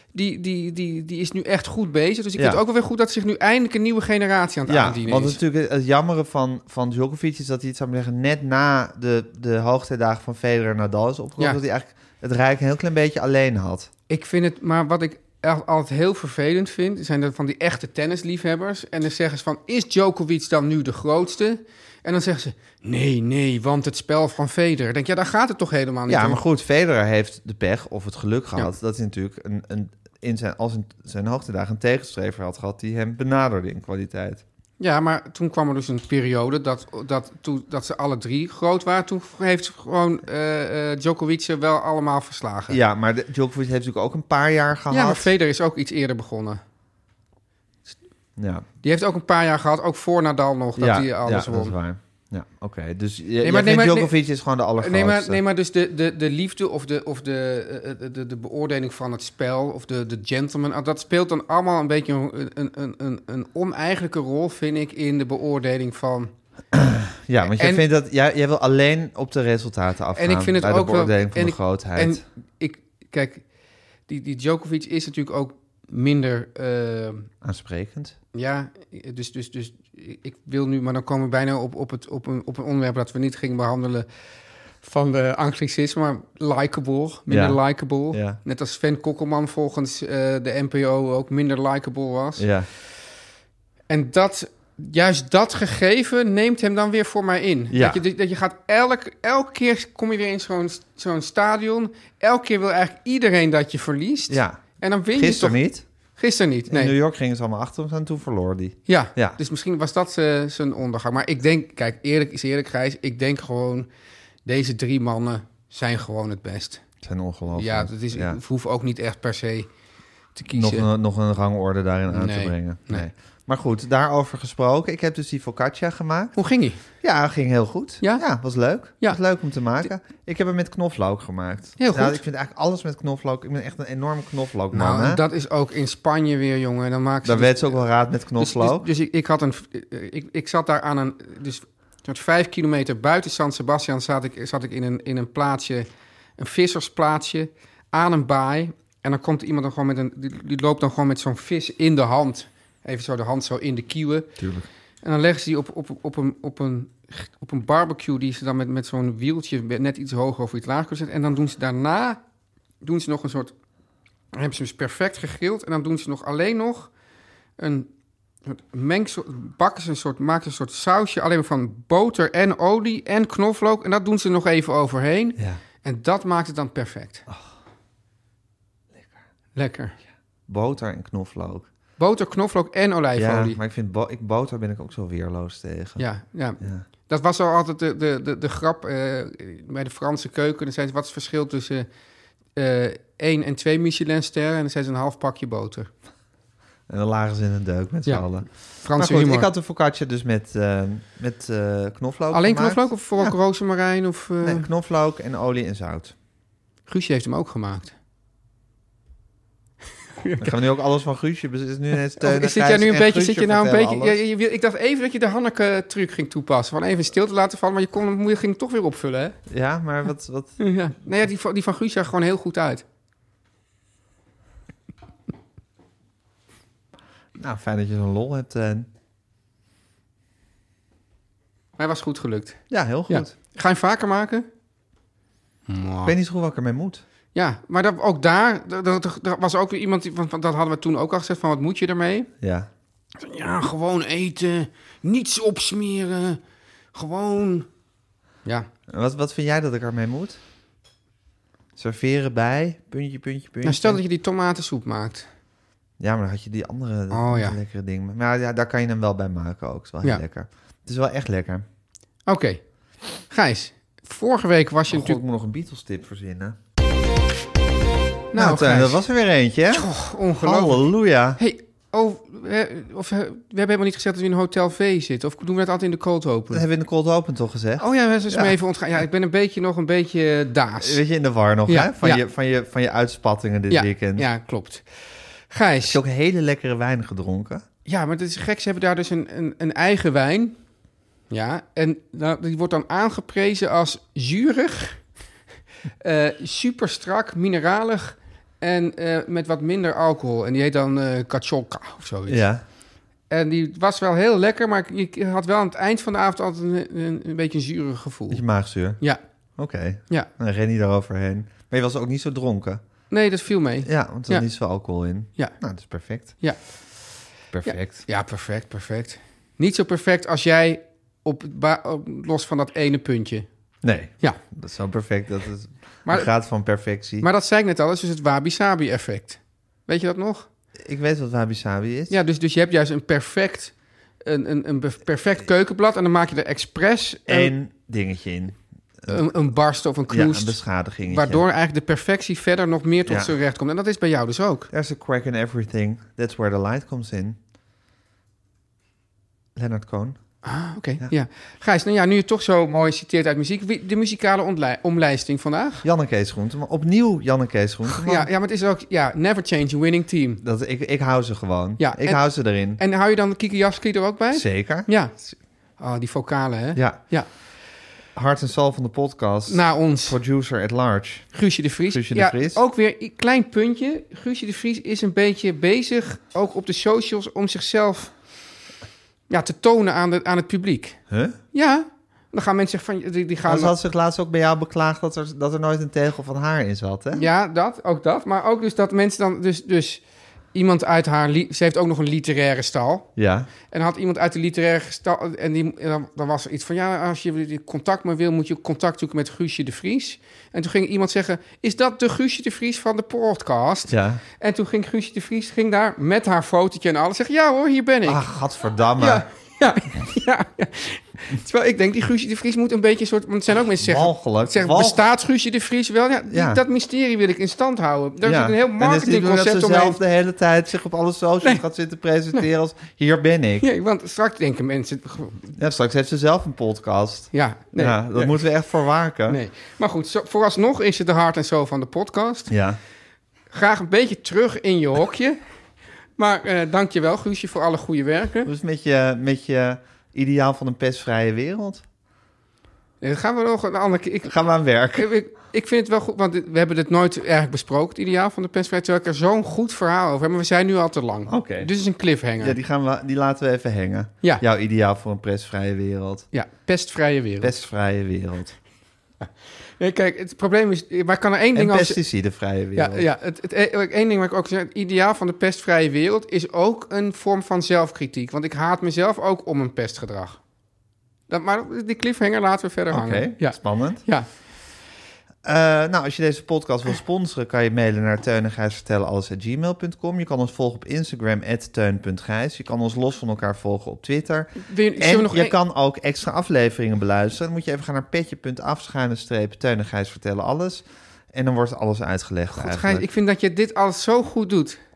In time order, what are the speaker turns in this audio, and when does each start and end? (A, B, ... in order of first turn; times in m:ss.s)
0:00.1-0:05.4 A
0:04.7-0:13.9 B
0:14.1-0:26.4 A
0:26.1-0:34.4 B
0:34.8-0:42.8 A
0:42.7-0:45.3 B
0:44.9-0:46.6 A
0:48.4-0:48.6 B
0:48.8-0:51.7 A
0:50.8-0:55.4 B
0:53.4-0:54.2 A
0:54.8-1:06.3 A
1:06.7-1:12.2 B
1:07.5-1:07.8 A
1:10.1-1:13.4 A
1:14.1-1:17.3 A
1:17.4-1:18.2 B
1:18.3-1:24.0 A
1:24.8-1:32.5 A
1:27.3-1:27.6 B
1:28.1-1:28.4 B
1:32.4-1:32.7 B
1:33.9-1:45.6 A
1:37.7-1:38.0 B
1:44.3-1:45.8 B
1:46.2-1:46.9 A
1:46.7-1:49.4 B
1:48.9-1:53.9 A
1:54.4-1:56.8 A
1:57.0-1:58.4 B
1:57.5-1:59.7 A
2:00.3-2:00.9 A
2:00.5-2:06.4 B
2:02.1-2:03.1 A
2:06.3-2:06.8 A
2:06.9-2:15.2 B
2:11.8-2:12.2 A
2:14.7-2:17.8 A
2:17.2-2:18.8 B
2:18.4-2:25.9 A
2:26.4-2:34.3 A
2:34.4-2:34.7 B
2:35.0-2:42.2 A
2:42.8-2:43.5 A
2:44.3-2:46.9 A
2:47.6-2:47.9 A
2:48.4-2:57.2 A
2:59.6-2:59.9 A
3:00.5-3:01.7 B
3:02.0-3:03.6 A
3:03.2-3:06.0 B
3:06.0-3:11.9 A
3:06.6-3:06.8 B
3:12.5-3:15.9 A
3:16.9-3:23.3 B
3:18.0-3:19.5 A
3:22.3-3:24.7 A
3:24.4-3:26.1 B
3:26.9-3:27.9 A
3:30.2-3:30.5 A
3:30.4-3:34.2 B
3:32.2-3:39.4 A
3:39.5-3:40.6 B
3:40.6-3:42.8 A
3:47.4-3:48.9 B
3:51.8-3:54.5 A
3:52.7-3:53.3 B
3:55.7-3:56.1 A
3:56.0-3:57.0 B
3:57.3-4:02.3 A
4:02.4-4:02.7 B
4:03.2-4:06.4 A
4:06.9-4:07.7 A
4:08.9-4:10.4 B
4:11.8-4:14.0 B
4:13.6-4:15.3 A
4:16.0-4:21.6 B
4:17.1-4:17.6 A
4:22.2-4:22.6 A
4:23.2-4:25.2 A
4:24.9-4:26.6 B
4:28.3-4:29.0 A
4:28.4-4:31.4 B
4:29.7-4:36.6 A
4:36.5-4:38.6 B
4:37.8-4:41.0 A
4:40.8-4:44.3 B
4:41.7-4:42.2 A
4:43.7-4:46.0 A
4:45.8-4:47.6 B
4:47.8-4:50.6 A
4:51.3-4:55.0 A
4:56.0-5:02.5 A
5:02.3-5:02.6 B
5:03.3-5:08.4 A
5:08.3-5:09.0 B
5:09.6-5:12.8 B
5:13.1-5:14.5 A
5:13.8-5:16.4 B
5:16.2-5:16.6 A
5:17.5-5:18.0 B
5:17.6-5:23.5 A
5:23.8-5:27.3 B
5:27.2-5:30.5 A
5:30.8-5:32.2 B
5:32.1-5:37.5 A
5:37.3-5:39.2 B
5:39.1-5:44.7 A
5:40.1-5:41.4 B
5:43.1-5:43.4 B
5:44.7-5:47.4 B
5:49.5-5:50.2 B
5:50.4-5:55.8 A
5:55.8-5:58.3 B
5:57.9-6:00.4 A
6:00.4-6:02.8 B
6:01.8-6:05.2 A
6:04.3-6:05.3 B
6:05.8-6:07.3 A
6:06.7-6:07.0 B
6:08.1-6:12.6 B
6:09.5-6:10.2 A
6:11.3-6:18.1 A
6:19.3-6:21.0 A
6:21.1-6:21.4 B
6:21.5-6:23.7 A
6:23.5-6:27.3 B
6:27.1-6:30.0 A
6:30.5-6:33.1 A
6:33.2-6:33.5 B
6:33.7-6:48.2 A
6:43.9-6:44.2 B
6:48.0-6:49.2 B
6:49.0-7:00.0 A
6:53.8-6:55.1 B
6:56.3-6:56.6 B
6:58.2-7:03.6 B
7:03.6-7:05.5 A
7:05.6-7:09.4 B
7:07.3-7:08.4 A
7:09.3-7:12.5 A
7:12.5-7:12.8 B
7:13.5-7:15.4 A
7:16.2-7:18.5 A
7:18.4-7:21.8 B
7:23.0-7:24.3 A
7:24.2-7:25.1 B
7:24.9-7:32.6 A
7:31.3-7:31.7 B
7:32.4-7:36.3 B
7:36.3-7:37.6 A
7:37.4-7:38.6 B
7:39.2-7:42.0 A
7:41.5-7:43.0 B
7:42.7-7:50.4 A
7:51.3-7:54.3 A
7:52.9-7:54.0 B
7:55.4-8:13.0 B
8:04.6-8:05.6 A
8:12.5-8:14.8 A